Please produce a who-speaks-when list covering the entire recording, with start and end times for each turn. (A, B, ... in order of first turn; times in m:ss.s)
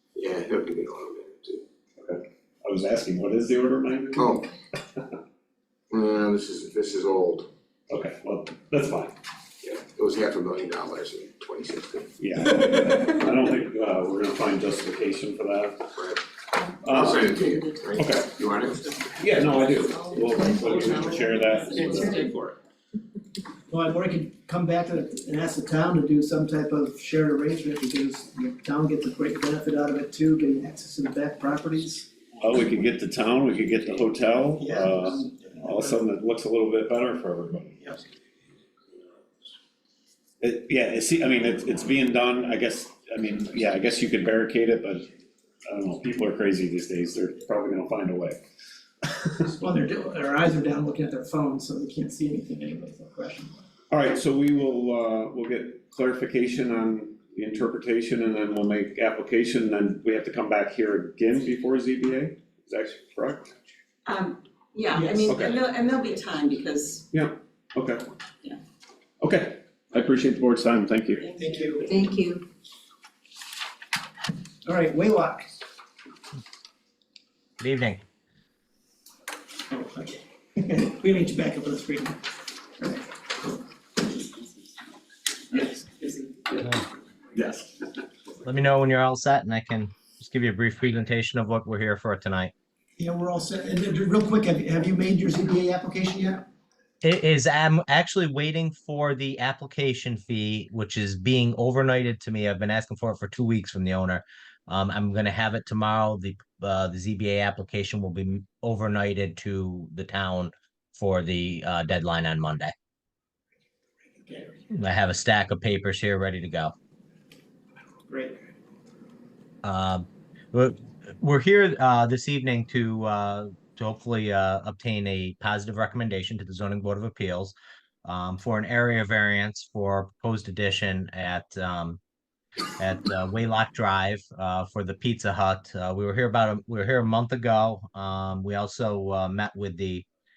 0:00.2-0:01.6 A
0:02.0-0:04.4 B
0:04.2-0:04.5 A
0:05.9-0:07.5 A
0:07.9-0:09.2 B
0:09.6-0:12.1 A
0:12.2-0:15.9 B
0:16.0-0:16.2 A
0:16.8-0:17.2 B
0:16.9-0:17.2 C
0:17.0-0:19.0 A
0:17.2-0:18.6 D
0:17.9-0:18.4 B
0:19.1-0:22.5 B
0:20.0-0:22.3 E
0:20.1-0:22.3 D
0:23.7-0:32.0 C
0:32.4-0:37.8 B
0:34.6-0:35.9 C
0:40.4-0:45.1 B
0:45.7-0:48.4 B
0:49.5-0:53.6 C
0:53.9-1:03.5 B
1:04.0-1:07.1 E
1:05.2-1:05.6 B
1:07.1-1:08.1 B
1:09.2-1:11.3 B
1:11.4-1:11.8 A
1:11.8-1:12.4 D
1:14.7-1:15.5 C
1:17.6-1:18.0 F
1:19.7-1:22.2 C
1:27.3-1:27.7 B
1:28.4-1:32.5 F
1:33.0-1:36.4 C
1:37.0-1:52.7 F
1:54.2-1:54.5 A
1:54.7-1:56.7 F
1:58.1-1:58.3 C
1:59.6-2:12.0 F
2:12.8-2:20.0 F